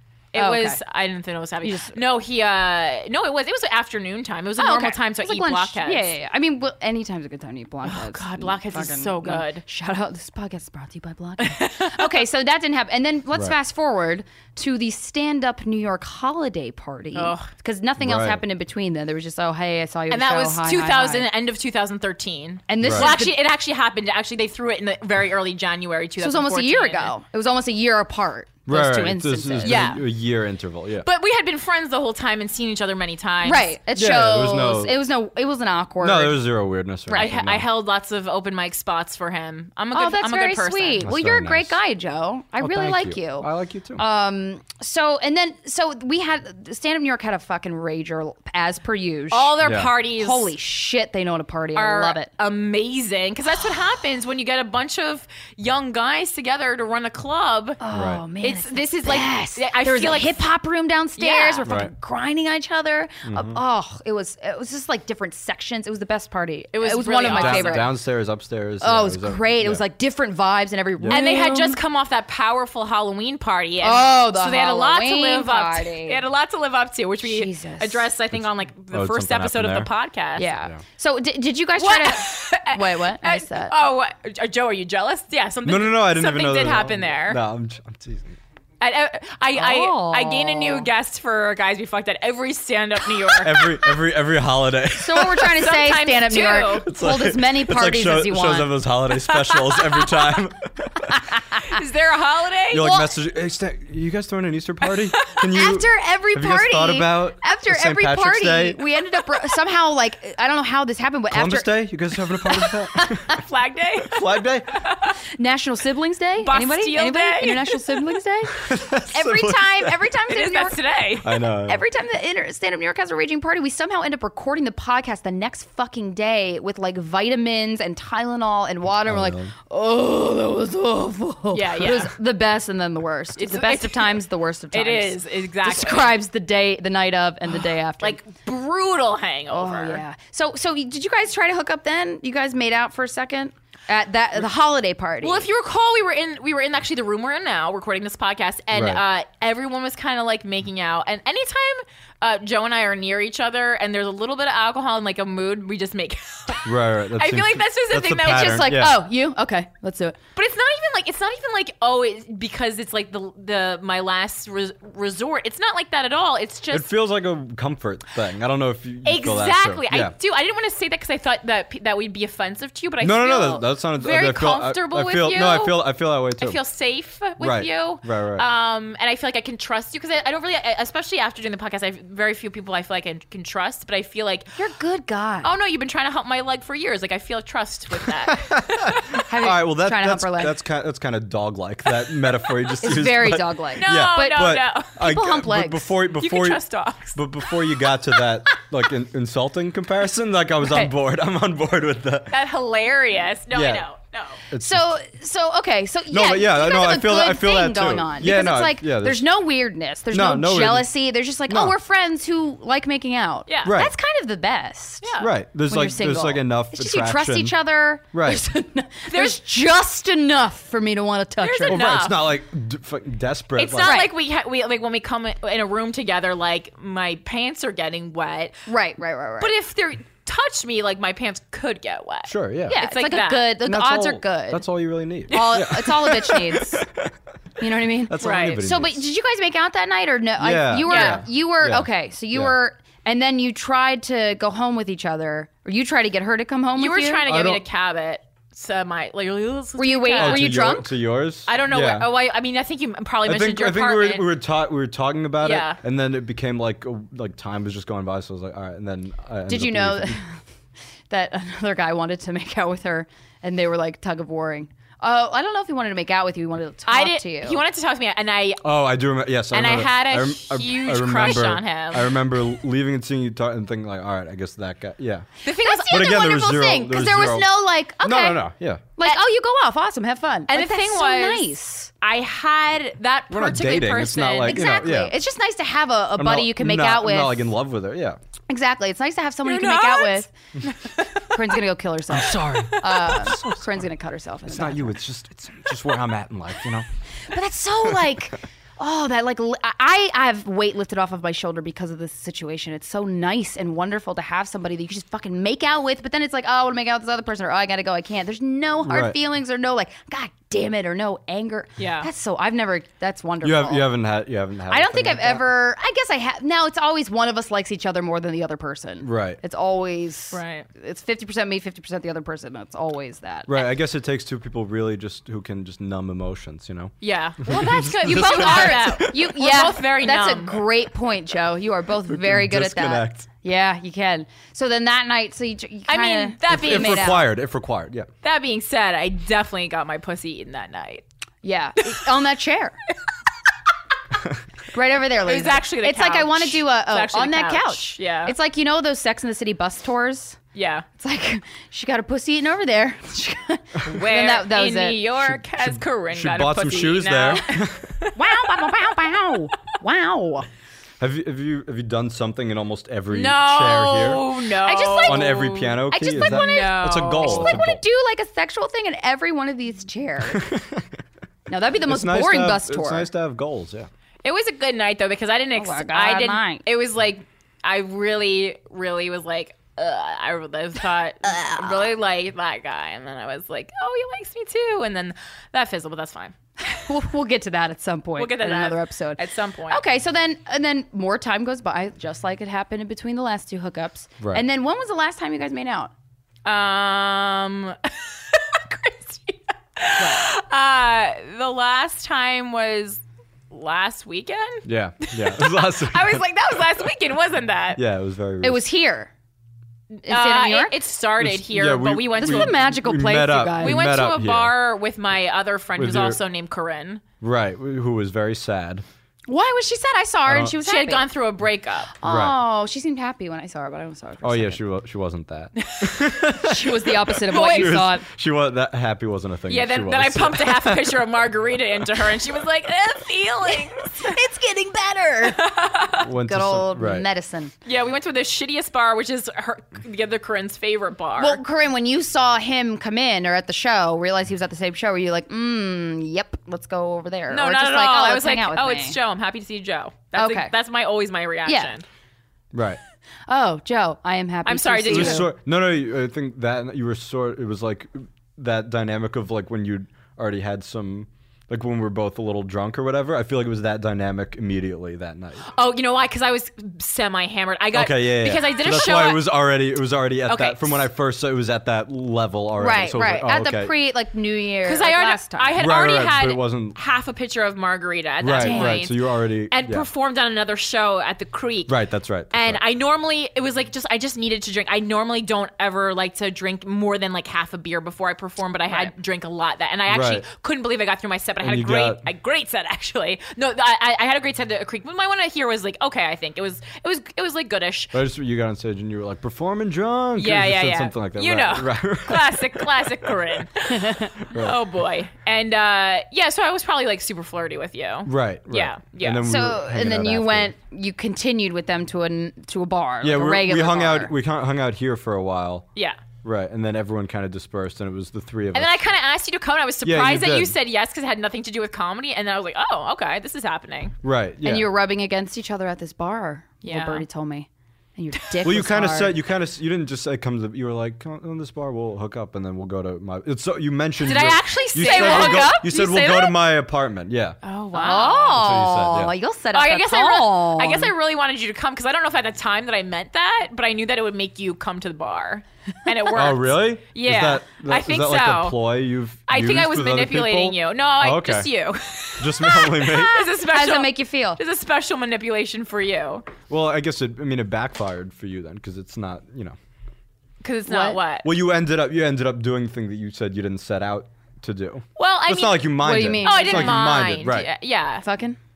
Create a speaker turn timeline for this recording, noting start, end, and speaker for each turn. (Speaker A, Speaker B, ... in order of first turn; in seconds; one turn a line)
Speaker A: 0.3-6.1
Speaker B: 0.3-0.8
Speaker B: 1.6-1.9
Speaker B: 4.6-21.3
Speaker A: 7.8-9.6
Speaker A: 11.4-12.2
Speaker A: 17.1-17.5
Speaker C: 18.0-18.4
Speaker A: 20.1-27.1
Speaker B: 22.7-23.4
Speaker C: 22.8-23.1
Speaker B: 26.2-30.0
Speaker C: 28.7-31.1
Speaker A: 29.6-30.1
Speaker A: 31.0-33.7
Speaker B: 33.4-36.4
Speaker C: 34.0-35.0
Speaker C: 36.0-37.7
Speaker B: 37.1-37.3
Speaker A: 37.1-41.1
Speaker B: 39.9-52.3
Speaker C: 41.0-41.8
Speaker C: 42.6-44.0
Speaker A: 49.3-50.5
Speaker C: 49.6-49.9
Speaker A: 51.7-57.8
Speaker B: 57.8-67.9
Speaker C: 57.9-58.2
Speaker A: 58.4-60.4
Speaker A: 61.2-61.7
Speaker C: 61.6-61.9
Speaker C: 63.3-63.6
Speaker A: 66.7-67.9
Speaker C: 67.3-69.8
Speaker B: 68.8-71.8
Speaker A: 71.1-80.5
Speaker B: 73.8-76.2
Speaker B: 77.2-78.1
Speaker C: 78.3-79.9
Speaker B: 80.4-83.7
Speaker A: 81.8-87.4
Speaker C: 85.7-88.4
Speaker A: 88.8-93.8
Speaker B: 89.5-90.9
Speaker C: 93.4-95.5
Speaker B: 94.9-98.7
Speaker A: 95.5-96.9
Speaker C: 96.8-101.3
Speaker A: 99.1-100.4
Speaker A: 101.6-103.1
Speaker C: 102.7-108.8
Speaker A: 105.1-105.4
Speaker B: 105.5-111.7
Speaker C: 111.3-113.4
Speaker B: 112.4-113.4
Speaker A: 113.3-115.1
Speaker C: 114.0-114.8
Speaker B: 115.3-120.8
Speaker A: 116.4-118.0
Speaker C: 118.5-120.0
Speaker A: 120.3-121.5
Speaker C: 121.2-121.8
Speaker B: 121.5-138.2
Speaker C: 129.1-129.5
Speaker A: 131.5-132.1
Speaker A: 133.4-134.2
Speaker A: 134.7-136.1
Speaker A: 138.0-140.0
Speaker B: 139.5-145.5
Speaker A: 145.2-158.8
Speaker C: 148.7-149.0
Speaker C: 156.7-159.0
Speaker B: 158.3-160.2
Speaker A: 160.3-166.9
Speaker C: 166.7-170.1
Speaker A: 169.1-175.8
Speaker C: 173.0-176.6
Speaker A: 176.4-184.6
Speaker C: 177.4-178.4
Speaker B: 184.6-185.5
Speaker A: 185.4-189.2
Speaker C: 188.3-196.6
Speaker B: 189.3-190.5
Speaker B: 192.8-195.9
Speaker A: 193.8-195.0
Speaker A: 196.2-198.2
Speaker C: 197.1-202.4
Speaker A: 202.3-204.4
Speaker C: 203.5-203.9
Speaker C: 204.5-204.9
Speaker B: 204.6-222.1
Speaker C: 206.1-209.2
Speaker C: 210.1-210.9
Speaker C: 211.5-211.7
Speaker A: 213.5-213.8
Speaker C: 213.6-213.9
Speaker A: 215.0-215.3
Speaker C: 215.2-217.6
Speaker C: 218.1-218.4
Speaker A: 219.1-219.4
Speaker A: 221.4-222.4
Speaker C: 221.7-224.0
Speaker A: 223.6-228.6
Speaker B: 223.8-224.1
Speaker B: 228.7-229.5
Speaker A: 229.4-233.6
Speaker C: 232.3-232.8
Speaker B: 232.7-234.7
Speaker C: 233.6-237.1
Speaker B: 235.3-236.8
Speaker A: 235.3-235.6
Speaker B: 237.6-247.3
Speaker C: 238.1-239.0
Speaker A: 238.2-238.6
Speaker C: 240.4-242.6
Speaker A: 240.8-241.2
Speaker A: 246.8-250.7
Speaker C: 247.2-247.6
Speaker B: 249.8-250.9
Speaker C: 250.2-252.1
Speaker A: 251.5-254.2
Speaker C: 253.2-260.2
Speaker A: 255.4-255.8
Speaker B: 259.5-260.4
Speaker B: 261.1-267.6
Speaker A: 266.9-268.6
Speaker C: 268.6-275.3
Speaker A: 269.5-272.2
Speaker A: 275.4-276.4
Speaker B: 275.5-278.4
Speaker C: 275.9-277.5
Speaker C: 278.0-278.9
Speaker B: 279.0-281.9
Speaker A: 280.5-284.6
Speaker C: 283.3-285.1
Speaker B: 284.4-287.5
Speaker C: 286.2-288.2
Speaker B: 288.5-290.3
Speaker A: 289.4-291.4
Speaker B: 291.3-295.0
Speaker C: 292.1-293.9
Speaker A: 292.4-293.2
Speaker C: 294.5-296.9
Speaker B: 297.3-313.9
Speaker C: 308.8-309.1
Speaker A: 311.8-312.1
Speaker C: 313.4-315.4
Speaker B: 314.7-323.7
Speaker C: 319.0-319.4
Speaker A: 320.3-320.7
Speaker C: 323.5-329.3
Speaker A: 327.0-330.6
Speaker B: 328.0-337.3
Speaker C: 332.1-333.3
Speaker A: 335.9-337.2
Speaker C: 336.5-338.1
Speaker A: 338.2-341.0
Speaker B: 341.4-342.8
Speaker B: 344.7-350.4
Speaker A: 345.2-348.4
Speaker A: 350.6-350.9
Speaker B: 351.0-355.1
Speaker A: 353.9-358.3
Speaker C: 355.2-357.9
Speaker B: 358.1-360.5
Speaker C: 361.0-364.3
Speaker A: 363.1-367.6
Speaker B: 364.6-370.5
Speaker C: 365.0-367.8
Speaker C: 370.3-370.8
Speaker B: 371.5-373.1
Speaker C: 371.9-373.9
Speaker A: 374.2-386.9
Speaker B: 375.6-376.6
Speaker B: 381.3-381.7
Speaker B: 386.9-395.9
Speaker A: 388.2-389.8
Speaker A: 396.4-407.8
Speaker B: 400.0-400.3
Speaker C: 404.7-406.2
Speaker C: 407.8-408.6
Speaker B: 408.4-409.1
Speaker A: 410.0-412.6
Speaker B: 410.1-410.7
Speaker C: 411.2-414.5
Speaker B: 412.2-413.9
Speaker A: 413.6-417.0
Speaker C: 415.8-416.2
Speaker C: 417.2-418.8
Speaker B: 419.3-421.1
Speaker C: 420.3-420.5
Speaker A: 420.6-421.9
Speaker B: 422.0-424.6
Speaker C: 422.0-422.4
Speaker C: 424.2-431.0
Speaker B: 426.4-428.1
Speaker A: 427.3-427.9
Speaker A: 429.5-434.2
Speaker B: 433.8-435.4
Speaker A: 435.2-436.1
Speaker C: 436.0-437.1
Speaker B: 436.1-437.5
Speaker A: 437.6-441.4
Speaker B: 441.2-449.0
Speaker A: 447.3-451.8
Speaker B: 450.1-450.5
Speaker B: 451.4-451.7
Speaker C: 452.5-452.8
Speaker B: 453.3-455.3
Speaker A: 454.4-455.3
Speaker C: 454.9-465.5
Speaker A: 465.5-469.3
Speaker C: 467.7-473.7
Speaker A: 470.3-470.9
Speaker B: 472.6-475.6
Speaker A: 474.6-481.8
Speaker C: 475.6-476.8
Speaker C: 478.2-479.9
Speaker B: 478.3-478.9
Speaker C: 481.7-482.6
Speaker A: 482.3-497.9
Speaker C: 489.9-490.3
Speaker C: 491.4-492.0
Speaker C: 497.9-502.9
Speaker A: 500.2-509.3
Speaker B: 503.7-504.1
Speaker C: 504.3-504.6
Speaker C: 508.1-510.5
Speaker B: 509.2-514.1
Speaker C: 513.0-515.7
Speaker C: 516.2-518.9
Speaker A: 518.5-524.0
Speaker C: 519.8-520.5
Speaker C: 524.0-524.7
Speaker B: 524.4-529.2
Speaker A: 526.6-527.0
Speaker C: 528.4-537.4
Speaker A: 534.0-536.3
Speaker B: 534.8-536.3
Speaker A: 537.4-538.4
Speaker B: 537.7-540.9
Speaker C: 538.3-539.1
Speaker A: 539.5-548.6
Speaker C: 546.1-551.5
Speaker A: 549.3-556.3
Speaker C: 552.2-553.3
Speaker B: 553.3-554.4
Speaker C: 556.5-559.5
Speaker A: 560.4-561.3
Speaker B: 560.7-561.0
Speaker C: 561.2-567.5
Speaker A: 565.0-568.0
Speaker B: 565.8-567.0
Speaker B: 568.0-568.4